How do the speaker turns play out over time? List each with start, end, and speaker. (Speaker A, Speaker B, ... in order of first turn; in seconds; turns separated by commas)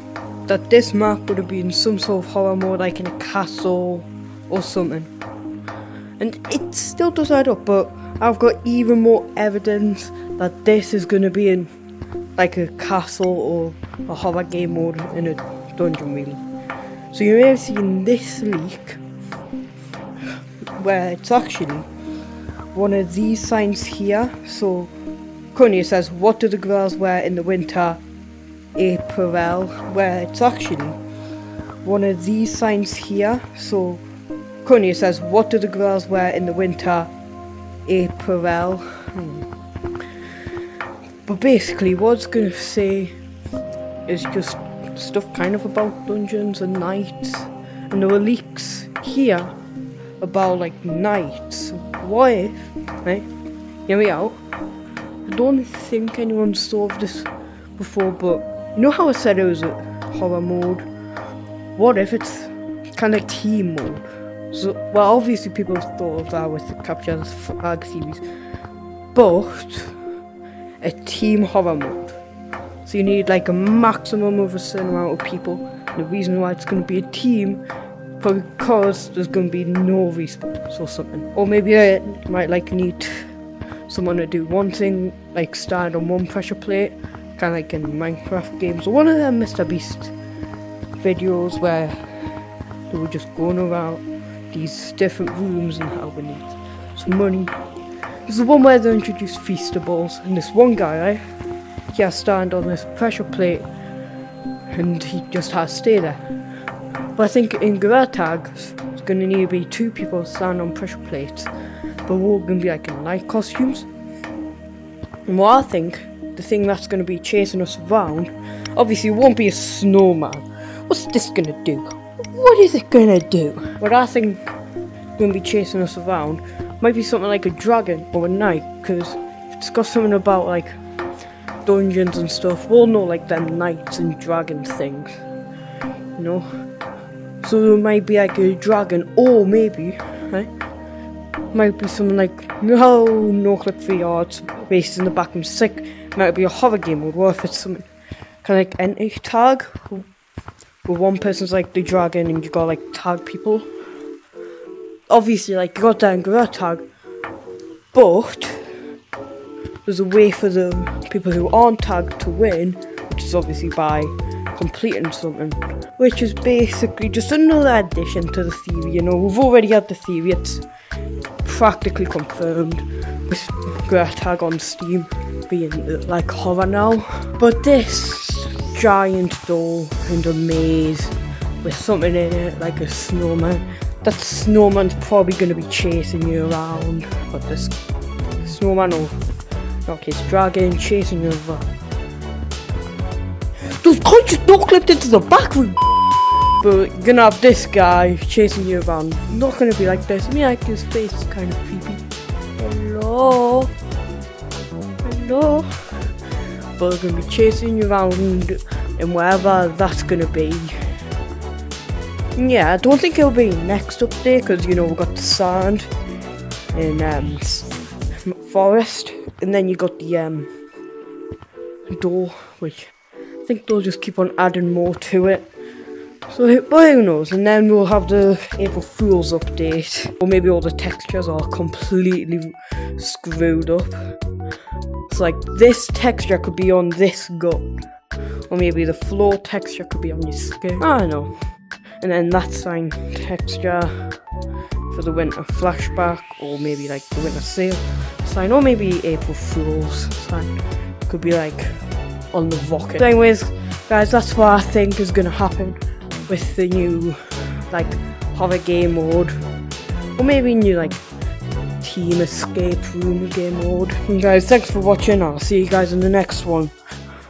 Speaker A: 0.5-5.1, Speaker A: 6.2-11.7, Speaker A: 12.4-16.4, Speaker A: 17.1-19.0, Speaker A: 20.8-21.9, Speaker A: 22.7-24.9, Speaker A: 25.5-28.0, Speaker A: 28.8-31.0, Speaker A: 31.8-34.0, Speaker A: 34.6-37.1, Speaker A: 37.9-39.5, Speaker A: 41.3-43.1, Speaker A: 44.1-49.5, Speaker A: 50.2-53.3, Speaker A: 53.9-54.4, Speaker A: 55.3-60.9, Speaker A: 61.8-68.2, Speaker A: 69.2-69.9, Speaker A: 70.8-72.2, Speaker A: 72.8-77.6, Speaker A: 78.2-83.1, Speaker A: 83.9-90.1, Speaker A: 91.0-92.0, Speaker A: 92.9-97.5, Speaker A: 98.3-101.2, Speaker A: 101.9-103.7, Speaker A: 104.7-106.2, Speaker A: 107.2-111.5, Speaker A: 112.1-113.9, Speaker A: 115.3-124.4, Speaker A: 125.2-130.7, Speaker A: 131.7-135.1, Speaker A: 136.2-136.5, Speaker A: 137.4-140.5, Speaker A: 141.5-147.9, Speaker A: 148.4-150.1, Speaker A: 150.9-153.7, Speaker A: 155.1-156.8, Speaker A: 157.9-158.6, Speaker A: 159.9-170.6, Speaker A: 171.4-187.8, Speaker A: 188.4-189.2, Speaker A: 189.9-191.6, Speaker A: 193.8-195.8, Speaker A: 196.6-202.0, Speaker A: 202.6-203.7, Speaker A: 205.0-205.7, Speaker A: 206.8-210.7, Speaker A: 212.4-215.9, Speaker A: 216.7-217.7, Speaker A: 218.3-220.5, Speaker A: 221.9-222.9, Speaker A: 223.4-225.5, Speaker A: 226.3-233.9, Speaker A: 235.1-237.7, Speaker A: 238.5-241.3, Speaker A: 242.0-243.9, Speaker A: 244.9-250.5, Speaker A: 251.1-251.7, Speaker A: 252.3-257.2, Speaker A: 257.7-259.3, Speaker A: 260.2-261.0, Speaker A: 261.8-266.7